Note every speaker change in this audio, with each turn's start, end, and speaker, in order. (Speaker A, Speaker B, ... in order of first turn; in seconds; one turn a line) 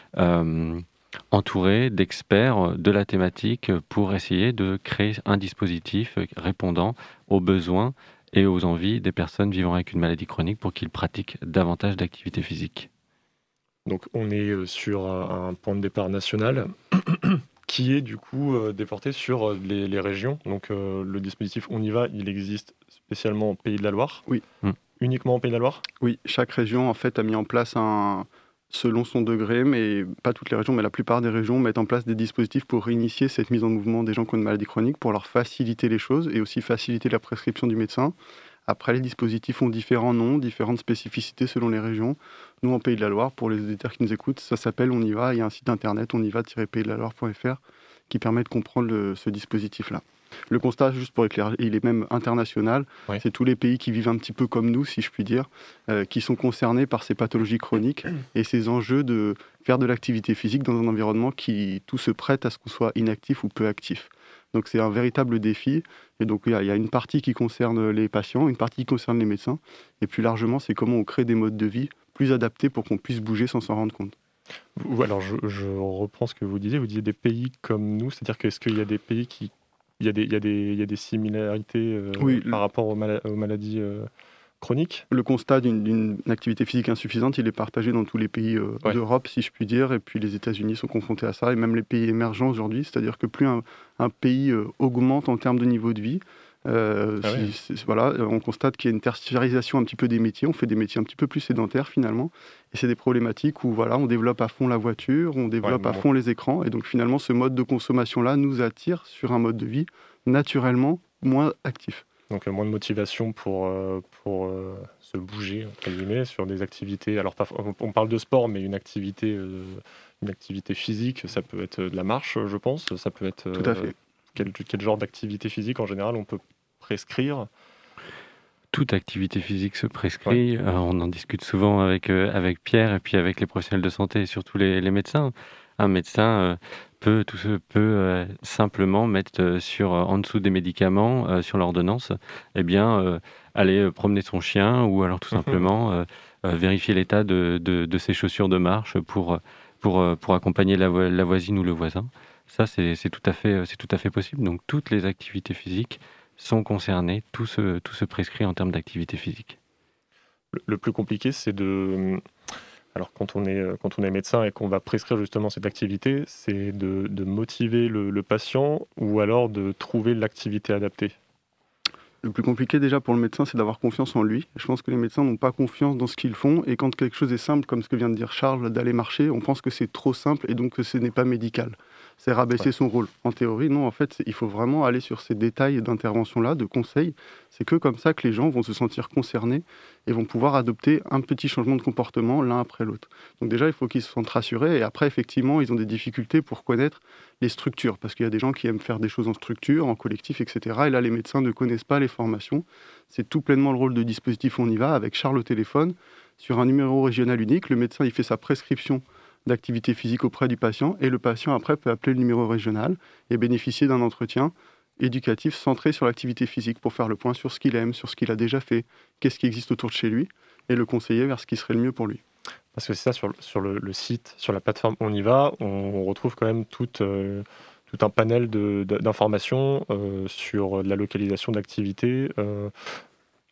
Speaker A: 0.2-12.9
Speaker B: 13.9-24.2
Speaker B: 25.0-25.8
Speaker C: 26.0-38.1
Speaker C: 38.7-74.2
Speaker B: 74.8-84.1
Speaker C: 82.2-82.6
Speaker B: 84.6-85.1
Speaker C: 85.1-112.1
Speaker B: 105.6-106.0
Speaker B: 112.3-127.5
Speaker C: 123.6-123.9
Speaker A: 128.7-159.6
Speaker B: 145.3-145.7
Speaker B: 160.5-162.2
Speaker B: 162.9-171.2
Speaker C: 172.2-222.2
Speaker B: 222.7-233.0